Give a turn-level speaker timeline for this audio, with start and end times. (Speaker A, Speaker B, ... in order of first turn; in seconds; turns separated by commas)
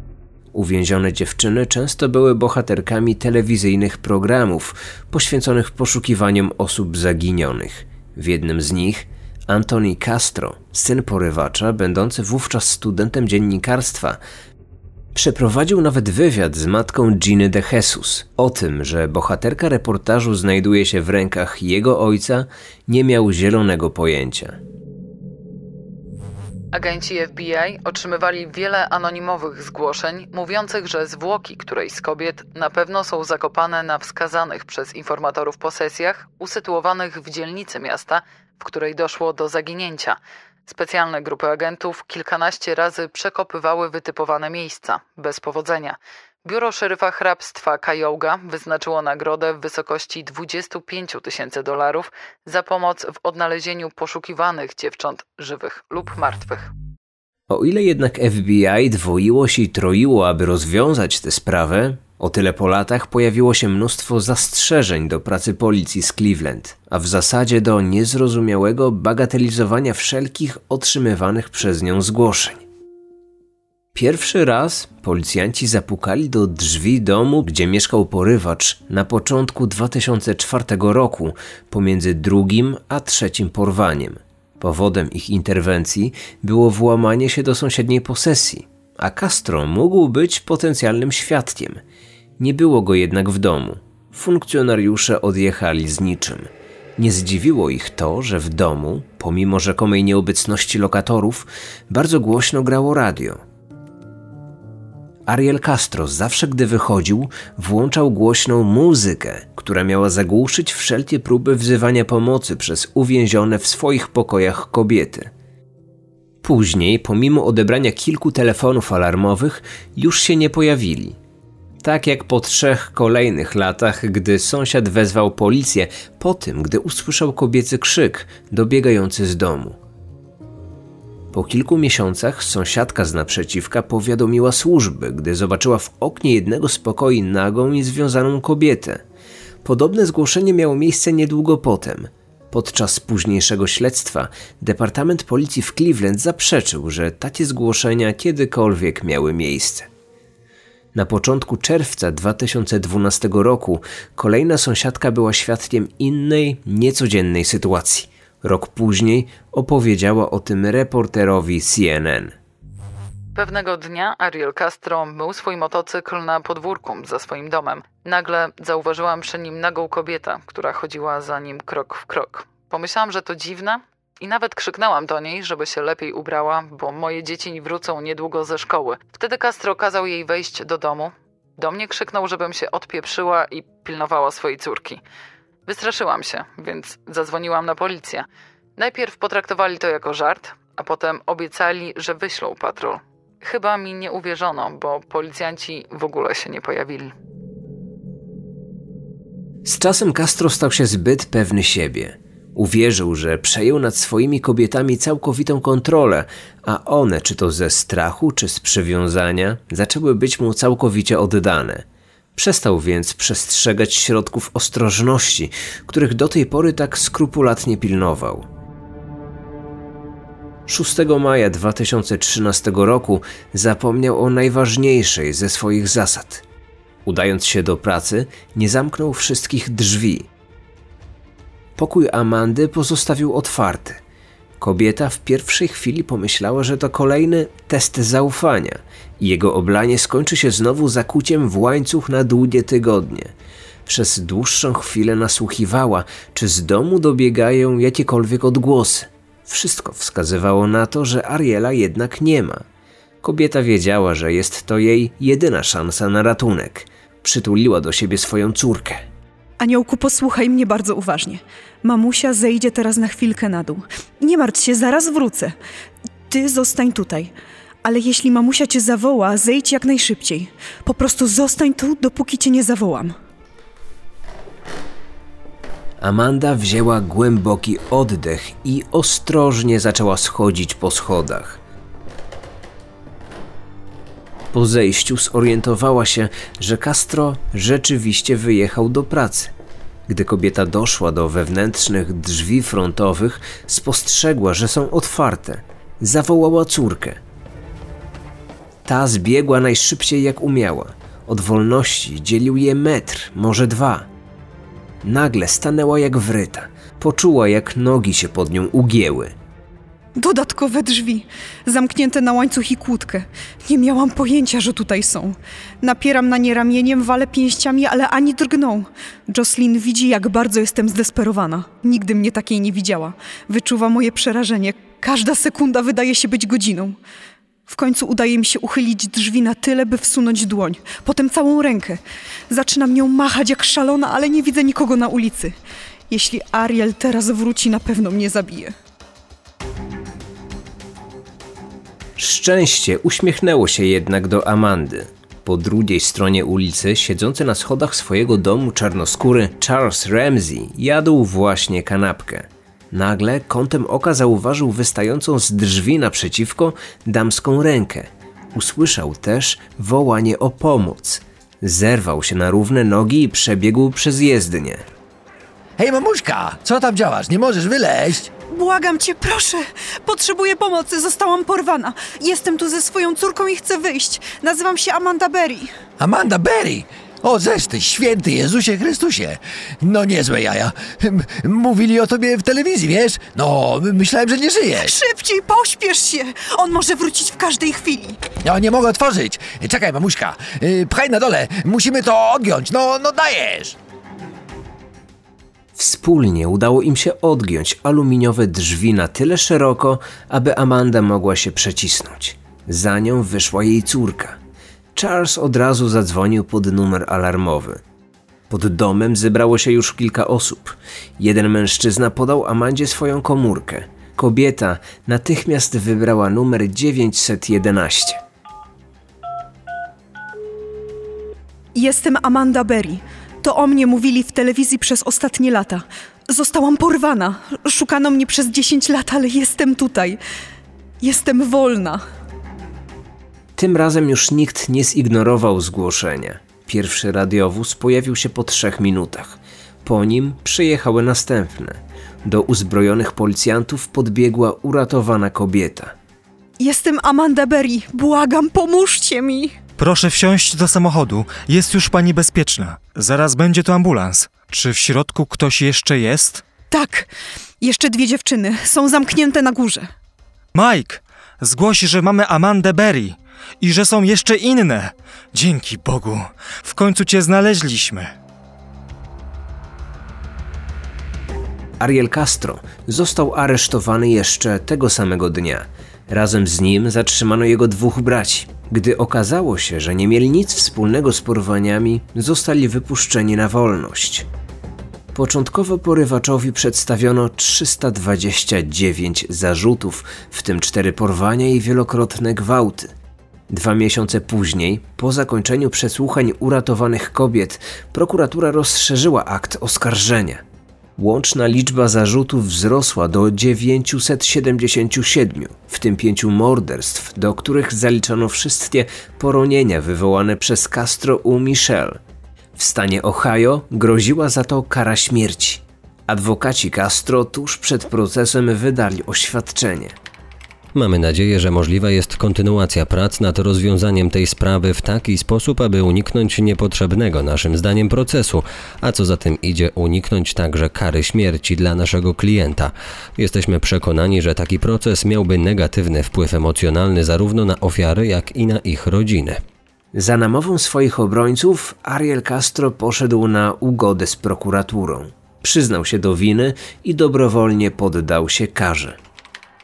Speaker A: 0.5-14.2, Speaker A: 15.2-24.6, Speaker B: 26.7-56.7, Speaker A: 57.5-72.6, Speaker A: 73.9-91.8, Speaker A: 92.4-103.4, Speaker A: 105.3-115.3, Speaker A: 116.4-121.2, Speaker A: 121.8-129.8, Speaker A: 131.3-139.0, Speaker A: 139.6-149.9, Speaker A: 150.9-162.3, Speaker B: 163.3-185.0, Speaker B: 185.7-188.3, Speaker B: 188.8-197.1, Speaker A: 199.7-218.5, Speaker A: 220.7-226.4, Speaker A: 227.1-230.3, Speaker A: 231.8-234.0, Speaker A: 234.6-243.3, Speaker A: 243.9-252.7, Speaker A: 253.2-259.1, Speaker C: 259.6-265.5, Speaker C: 266.3-267.3, Speaker C: 267.8-273.1, Speaker A: 276.0-281.6, Speaker A: 284.5-289.5, Speaker A: 290.1-297.2, Speaker A: 298.9-304.1, Speaker A: 305.0-309.4, Speaker C: 310.2-327.0, Speaker C: 327.7-335.6, Speaker C: 336.1-338.7, Speaker A: 342.2-364.8, Speaker D: 365.8-368.3, Speaker C: 368.5-375.7, Speaker D: 376.0-384.9, Speaker C: 384.7-388.2, Speaker D: 388.4-393.8, Speaker A: 395.8-404.4, Speaker A: 405.0-407.8, Speaker A: 408.5-418.2, Speaker C: 421.8-430.2, Speaker C: 431.0-432.0, Speaker A: 433.6-445.9, Speaker C: 446.6-449.6, Speaker E: 449.8-456.4, Speaker C: 456.7-457.1, Speaker C: 457.6-459.9, Speaker E: 460.5-468.1, Speaker A: 471.8-484.3, Speaker A: 485.1-492.9, Speaker A: 493.5-500.4, Speaker A: 501.0-512.0, Speaker A: 512.6-520.0, Speaker F: 520.7-539.4, Speaker A: 539.9-549.0